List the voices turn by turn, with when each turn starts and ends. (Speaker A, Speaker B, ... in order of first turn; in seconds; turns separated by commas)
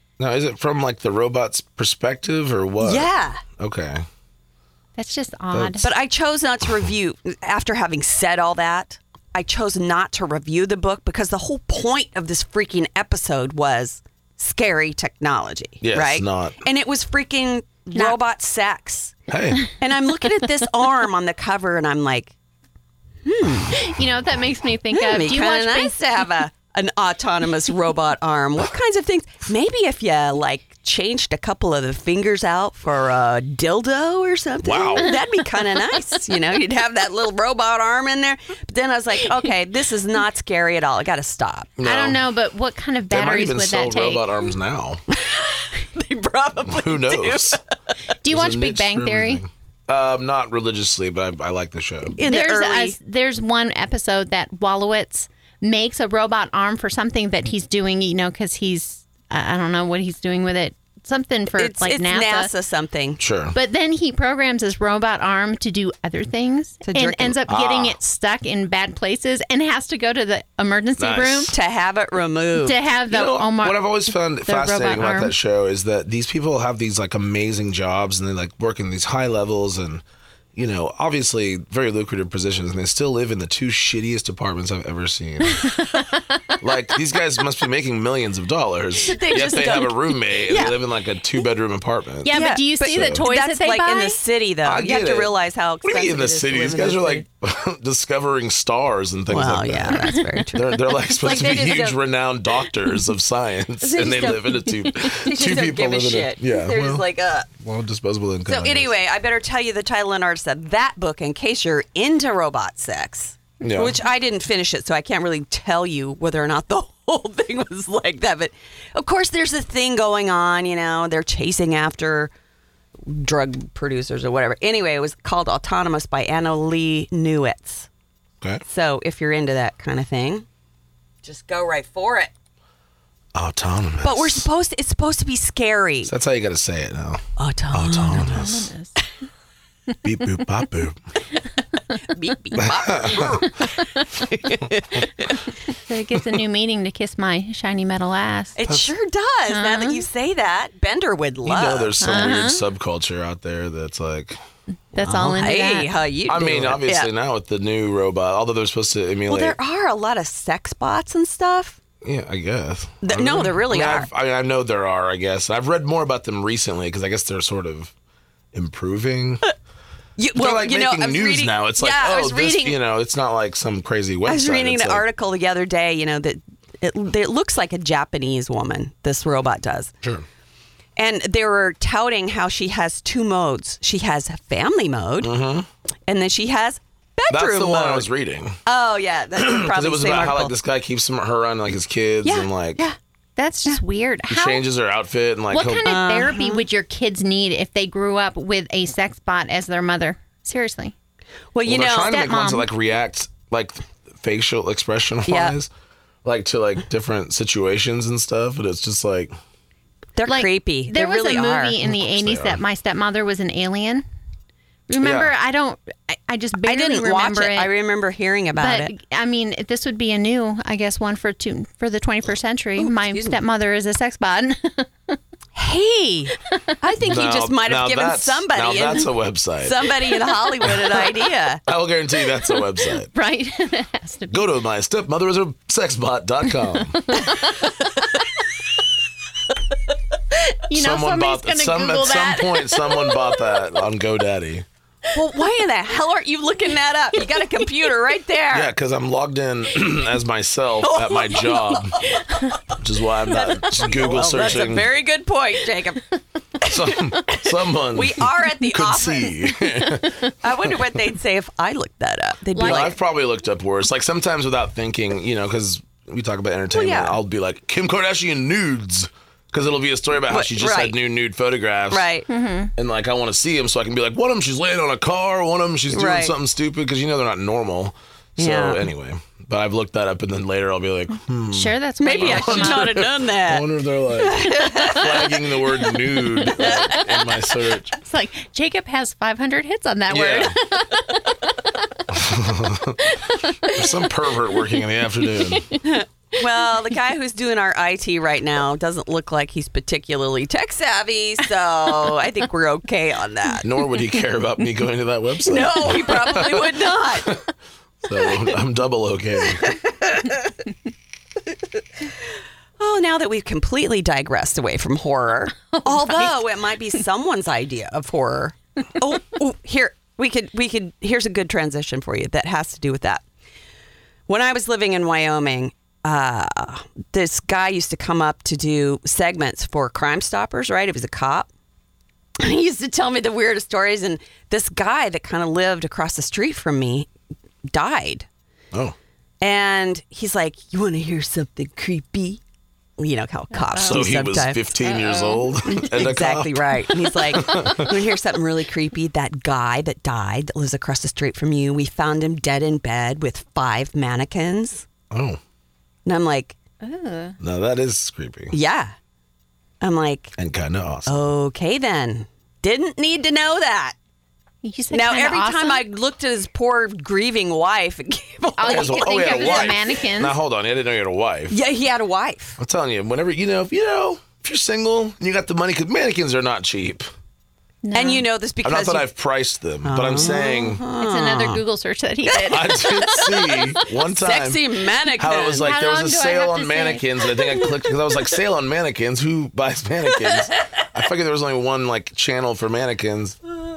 Speaker A: 0.2-4.0, Speaker B: 2.8-3.4, Speaker C: 5.0-5.9, Speaker A: 5.5-5.9, Speaker B: 5.8-19.1, Speaker A: 15.8-16.6, Speaker A: 19.3-19.7, Speaker B: 19.8-22.3, Speaker B: 23.2-23.7, Speaker C: 23.7-26.0, Speaker B: 24.9-41.7, Speaker A: 34.6-35.2, Speaker A: 41.8-42.2, Speaker C: 41.8-44.3, Speaker A: 43.1-45.0, Speaker B: 45.1-47.6, Speaker A: 46.6-47.6, Speaker C: 48.2-49.4, Speaker A: 48.3-52.2, Speaker B: 52.2-53.0, Speaker C: 52.2-62.5, Speaker B: 61.6-63.2, Speaker A: 63.2-63.6, Speaker C: 63.5-71.5, Speaker B: 66.8-67.4, Speaker A: 67.5-68.0, Speaker A: 71.0-71.5, Speaker B: 71.5-72.8, Speaker C: 72.6-75.3, Speaker A: 73.1-80.0, Speaker A: 80.6-85.7, Speaker C: 85.6-86.2, Speaker A: 86.6-93.2, Speaker B: 89.0-90.8, Speaker C: 92.2-94.2, Speaker B: 92.3-97.2, Speaker A: 94.6-95.3, Speaker A: 95.8-108.9, Speaker B: 99.3-102.0, Speaker B: 103.8-107.5, Speaker B: 108.5-122.3, Speaker A: 113.6-114.0, Speaker B: 123.0-127.9, Speaker B: 128.7-130.5, Speaker B: 131.2-132.3, Speaker A: 133.3-134.4, Speaker B: 134.0-136.1, Speaker A: 136.0-138.7, Speaker B: 137.4-138.3, Speaker C: 137.9-138.9, Speaker A: 140.0-141.0, Speaker B: 142.1-145.3, Speaker A: 142.6-143.5, Speaker C: 143.2-144.1, Speaker C: 145.7-148.6, Speaker B: 148.6-152.3, Speaker A: 148.7-148.9, Speaker C: 149.5-150.0, Speaker A: 151.4-154.4, Speaker C: 152.0-152.6, Speaker C: 154.9-155.9, Speaker B: 155.0-157.1, Speaker A: 156.3-159.6, Speaker B: 159.3-161.8, Speaker A: 162.0-167.9, Speaker B: 163.0-164.1, Speaker A: 168.5-169.4, Speaker B: 170.2-172.8, Speaker A: 170.3-175.1, Speaker B: 174.3-179.9, Speaker B: 181.0-185.3, Speaker A: 185.2-185.7, Speaker B: 186.1-188.1, Speaker A: 187.3-188.6, Speaker B: 188.7-190.5, Speaker A: 189.3-192.8, Speaker B: 192.2-193.0, Speaker C: 193.4-194.6, Speaker A: 194.3-195.9, Speaker C: 195.5-200.9, Speaker B: 195.8-196.6, Speaker B: 201.5-202.2, Speaker A: 201.6-205.7, Speaker C: 202.1-202.7, Speaker B: 205.3-205.6, Speaker A: 206.2-209.3, Speaker B: 210.2-211.8, Speaker C: 210.3-214.0, Speaker A: 211.8-212.6, Speaker C: 214.9-217.7, Speaker A: 215.0-215.3, Speaker B: 216.6-218.9, Speaker C: 218.6-225.2, Speaker B: 222.8-223.4, Speaker B: 225.6-231.6, Speaker A: 227.0-231.0, Speaker A: 231.7-233.1, Speaker C: 233.1-234.4, Speaker A: 234.3-237.3, Speaker C: 237.0-237.9, Speaker C: 240.5-243.3, Speaker A: 240.7-244.7, Speaker B: 245.1-248.7, Speaker A: 248.5-252.1, Speaker B: 250.8-252.4, Speaker A: 252.7-254.9, Speaker B: 253.3-256.1, Speaker B: 256.6-259.4, Speaker A: 256.6-260.8, Speaker B: 260.4-262.9, Speaker C: 262.5-262.9, Speaker A: 262.6-272.1, Speaker B: 266.7-267.2, Speaker B: 270.3-271.0, Speaker B: 271.9-272.3, Speaker C: 272.3-272.7, Speaker A: 272.8-288.0, Speaker B: 275.9-276.4, Speaker B: 278.4-278.8, Speaker C: 281.5-283.1, Speaker B: 282.0-285.5, Speaker B: 286.4-287.2, Speaker C: 288.0-291.6, Speaker A: 290.1-290.6, Speaker A: 292.1-293.0, Speaker C: 293.2-294.1, Speaker A: 293.7-295.8, Speaker C: 295.5-296.0, Speaker B: 295.8-303.6, Speaker A: 303.6-307.5, Speaker B: 305.5-307.4, Speaker A: 308.0-309.8, Speaker B: 309.6-310.4, Speaker B: 312.8-323.2, Speaker C: 315.7-316.4, Speaker B: 324.3-331.5, Speaker B: 332.4-337.1, Speaker B: 337.7-338.3, Speaker B: 339.4-342.4, Speaker B: 343.0-344.7, Speaker C: 343.5-344.1, Speaker A: 343.9-347.9, Speaker C: 344.8-345.7, Speaker B: 345.7-354.9, Speaker A: 355.1-355.4, Speaker B: 356.1-356.6, Speaker C: 356.8-357.4, Speaker A: 357.4-358.5, Speaker B: 358.5-358.9, Speaker B: 359.8-360.3, Speaker A: 360.4-361.2, Speaker B: 361.1-364.0, Speaker C: 364.6-365.8, Speaker B: 364.9-369.8, Speaker C: 368.6-370.4, Speaker A: 368.6-371.6, Speaker B: 371.5-372.6, Speaker A: 372.6-377.1, Speaker C: 377.8-378.2, Speaker B: 377.9-379.1, Speaker A: 378.6-380.8, Speaker B: 379.8-381.6, Speaker C: 380.9-383.3, Speaker B: 382.3-385.7, Speaker A: 382.4-393.4, Speaker C: 385.5-387.8